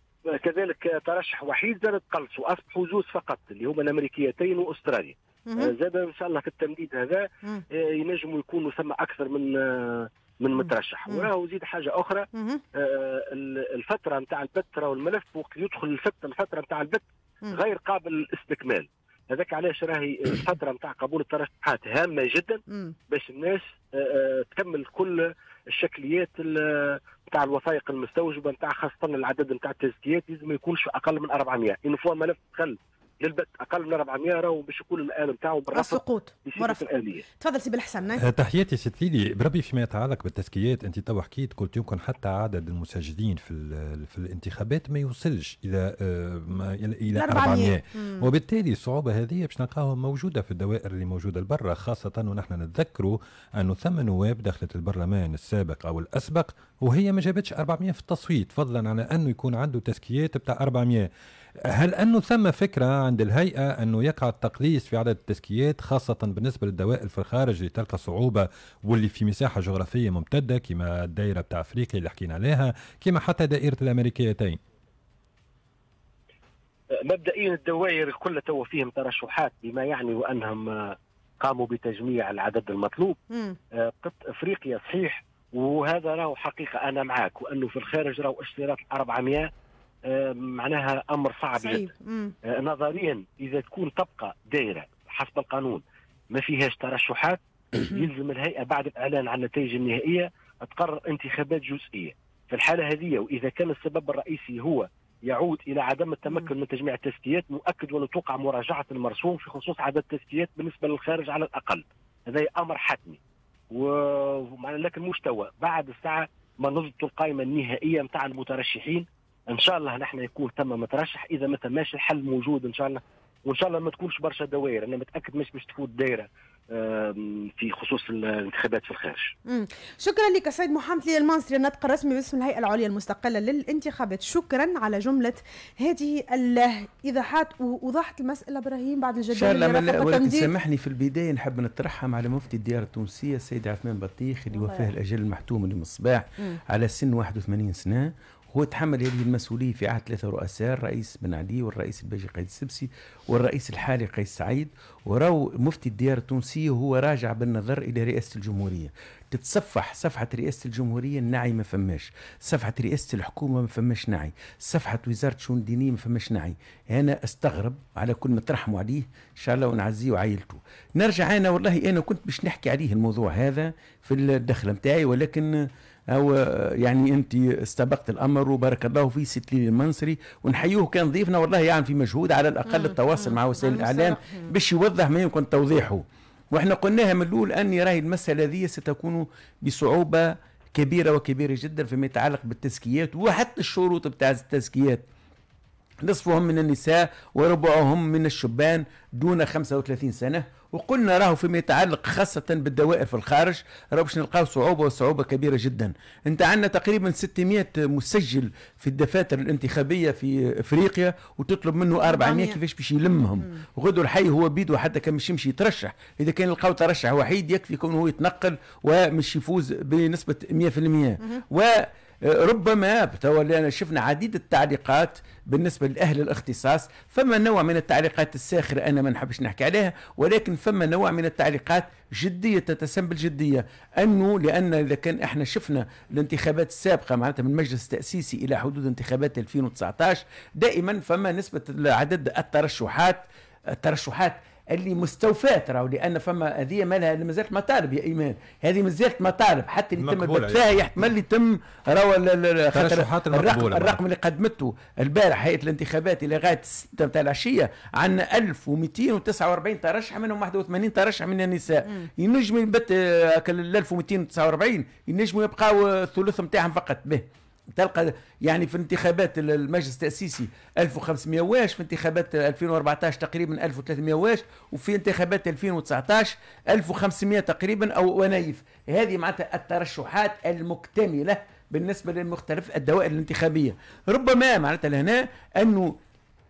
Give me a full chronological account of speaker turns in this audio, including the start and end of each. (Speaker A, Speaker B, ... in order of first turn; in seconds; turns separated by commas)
Speaker A: 0.3-37.2, Speaker B: 12.3-12.6, Speaker B: 22.7-22.9, Speaker B: 35.7-36.8, Speaker B: 37.4-38.2, Speaker C: 38.2-61.1, Speaker B: 47.1-48.3, Speaker C: 61.6-74.6, Speaker A: 77.0-83.2, Speaker B: 83.3-83.6, Speaker A: 83.7-89.5, Speaker A: 90.0-91.9, Speaker B: 91.6-92.3, Speaker A: 92.4-113.2, Speaker A: 113.7-129.3, Speaker B: 129.5-140.5, Speaker D: 139.3-195.1, Speaker B: 182.7-184.5, Speaker D: 196.0-286.0, Speaker B: 212.0-212.6, Speaker C: 250.0-250.8, Speaker C: 252.7-254.0